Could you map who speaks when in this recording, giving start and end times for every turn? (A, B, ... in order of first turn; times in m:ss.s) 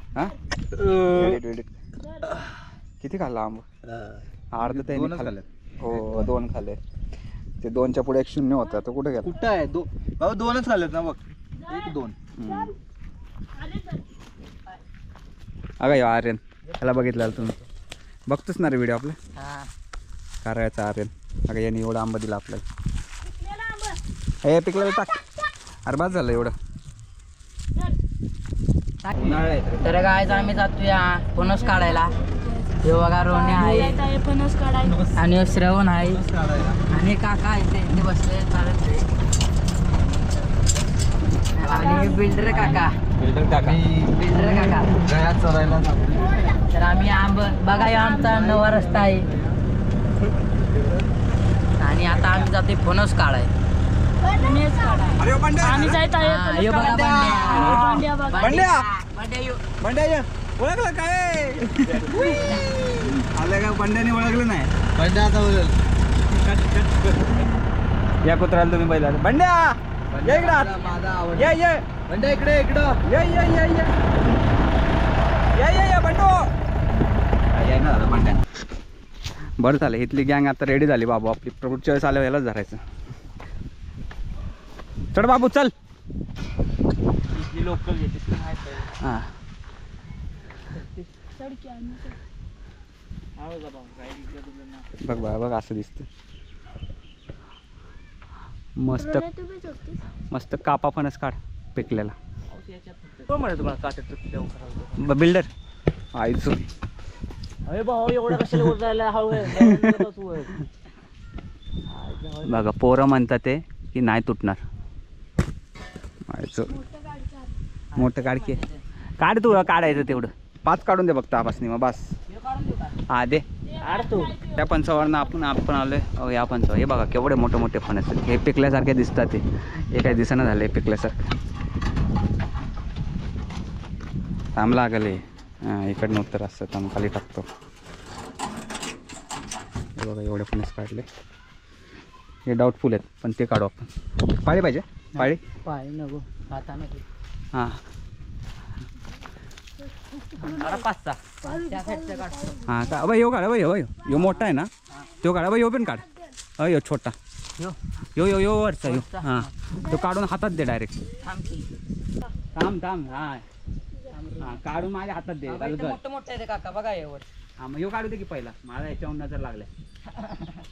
0:00.1-0:01.7 A
0:00.8-0:01.3 B
0:03.0-0:03.6 A
0:04.5-0:06.8 A
0:04.6-0:05.4 B
0:06.0-0:06.3 B
0:07.6-0:09.4 A
0:09.2-0:12.2 B
0:12.4-0:12.7 A
0:15.8-0:17.6 A
0:18.3-0:19.2 A
0:19.4-0:19.7 C
0:20.4-0:22.6 A
0:23.4-0:24.0 D
0:24.4-0:25.2 A
0:25.8-0:26.6 A
0:29.0-0:32.1 C
0:29.1-0:30.0 A
0:30.1-0:30.5 D
0:31.5-0:35.0 D
0:32.8-0:34.0 C
0:34.8-0:35.1 B
0:35.1-0:36.2 C
0:36.0-0:36.8 B
0:36.9-0:39.1 C
0:41.6-0:43.0 C
0:41.6-0:42.8 B
0:41.7-0:42.8 D
0:43.2-0:43.8 A
0:43.6-0:46.4 B
0:44.1-0:45.0 C
0:46.1-0:48.4 D
0:46.7-0:49.3 C
0:48.1-0:49.3 A
0:50.6-0:51.0 B
0:51.8-0:53.5 C
0:52.1-0:52.5 A
0:54.2-0:58.5 D
0:55.2-0:56.0 A
0:56.1-0:59.6 C
0:57.1-0:57.4 E
0:57.5-0:58.8 A
0:59.8-1:04.7 A
1:02.2-1:02.7 C
1:04.9-1:05.8 B
1:06.3-1:07.5 A
1:08.2-1:10.8 A
1:10.1-1:13.0 B
1:11.3-1:11.9 A
1:13.0-1:13.9 A
1:15.5-1:16.5 A
1:17.5-1:18.4 A
1:19.6-1:22.8 A
1:25.1-1:25.7 A
1:27.3-1:28.9 E
1:29.0-1:29.3 A
1:30.8-1:31.0 E
1:31.4-1:32.2 D
1:33.4-1:34.9 E
1:35.0-1:36.0 A
1:38.8-1:39.3 A
1:38.9-1:40.0 D
1:40.3-1:42.1 A
1:42.5-1:45.1 E
1:45.0-1:45.5 A
1:46.1-1:46.7 A
1:47.6-1:50.5 E
1:49.5-1:49.9 A
1:51.9-1:52.7 E
1:52.4-1:54.6 A
1:56.3-1:56.8 A
1:56.9-1:57.5 D
1:57.9-1:58.8 C
1:57.9-1:58.6 A
1:59.2-2:02.1 A
2:02.3-2:03.0 C
2:03.1-2:03.4 A
2:03.8-2:04.4 E
2:04.4-2:11.2 A
2:14.6-2:17.5 A
2:20.0-2:21.1 A
2:22.5-2:25.4 A
2:25.2-2:27.0 C
2:27.5-2:27.8 A
2:30.4-2:32.7 C
2:31.5-2:32.5 D
2:32.7-2:37.1 A
2:34.2-2:34.5 C
2:38.2-2:40.9 A
2:38.8-2:39.5 C
2:41.2-2:41.7 C
2:42.5-2:43.4 A
2:44.1-2:44.6 C
2:44.4-2:46.0 A
2:45.5-2:47.2 C
2:47.6-2:49.7 A